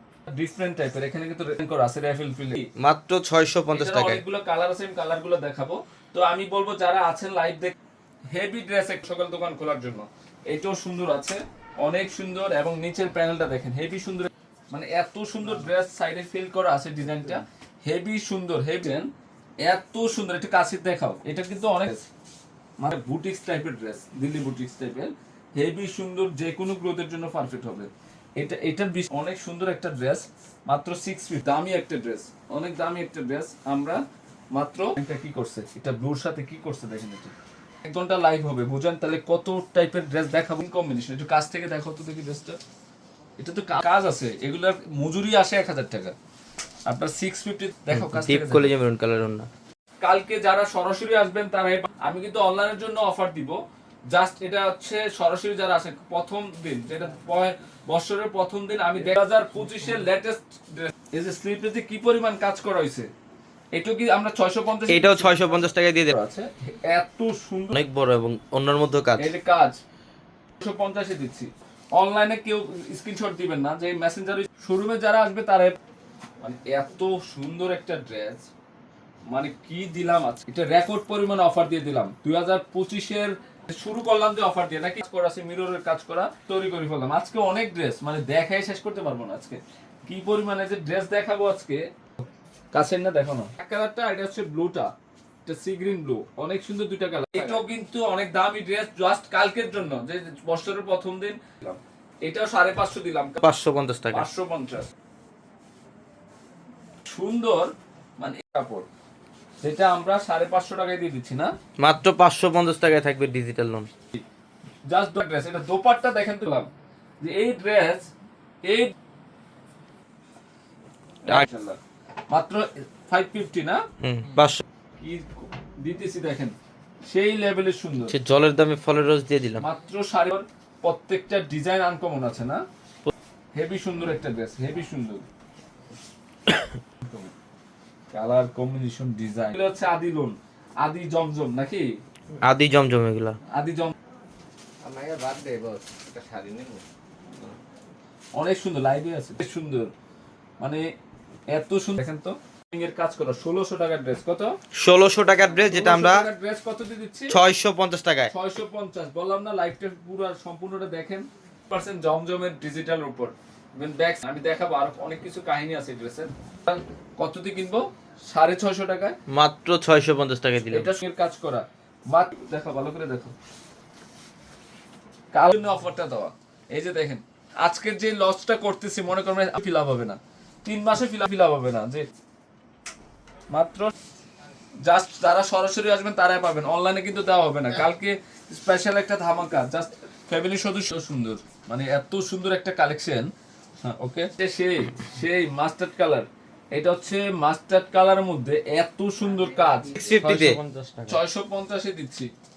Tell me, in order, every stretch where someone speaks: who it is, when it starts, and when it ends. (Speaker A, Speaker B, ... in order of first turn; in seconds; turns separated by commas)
Speaker A: 0.3-2.7, Speaker B: 2.8-4.2, Speaker A: 3.7-7.8, Speaker A: 8.3-19.1, Speaker A: 19.6-22.1, Speaker A: 22.8-42.6, Speaker A: 43.4-46.1, Speaker A: 46.9-48.7, Speaker B: 47.9-49.5, Speaker A: 50.0-63.1, Speaker A: 63.7-65.3, Speaker B: 64.9-66.1, Speaker A: 66.1-67.8, Speaker B: 67.7-69.3, Speaker A: 69.2-69.8, Speaker A: 70.6-75.8, Speaker A: 76.4-78.5, Speaker A: 79.3-91.9, Speaker A: 92.7-94.9, Speaker A: 95.5-103.4, Speaker B: 103.4-104.3, Speaker A: 104.1-104.9, Speaker A: 107.1-108.9, Speaker A: 109.6-111.5, Speaker B: 111.8-113.9, Speaker A: 114.9-116.7, Speaker A: 117.2-118.1, Speaker A: 118.7-118.9, Speaker A: 121.3-123.8, Speaker B: 124.0-124.6, Speaker A: 125.0-126.5, Speaker A: 127.1-128.2, Speaker B: 128.1-129.6, Speaker A: 129.6-132.6, Speaker A: 133.6-135.2, Speaker A: 137.0-137.3, Speaker A: 138.1-142.0, Speaker B: 142.4-143.4, Speaker A: 143.5-143.9, Speaker C: 144.8-146.8, Speaker A: 148.3-149.9, Speaker A: 151.5-154.6, Speaker B: 154.8-156.2, Speaker A: 155.6-157.4, Speaker B: 157.3-158.3, Speaker A: 158.3-169.2, Speaker B: 169.3-170.9, Speaker A: 170.7-173.3, Speaker A: 175.3-182.1, Speaker A: 183.5-183.9, Speaker A: 184.8-193.3, Speaker A: 193.8-200.0, Speaker C: 199.4-200.3, Speaker B: 199.9-201.2, Speaker A: 201.1-202.3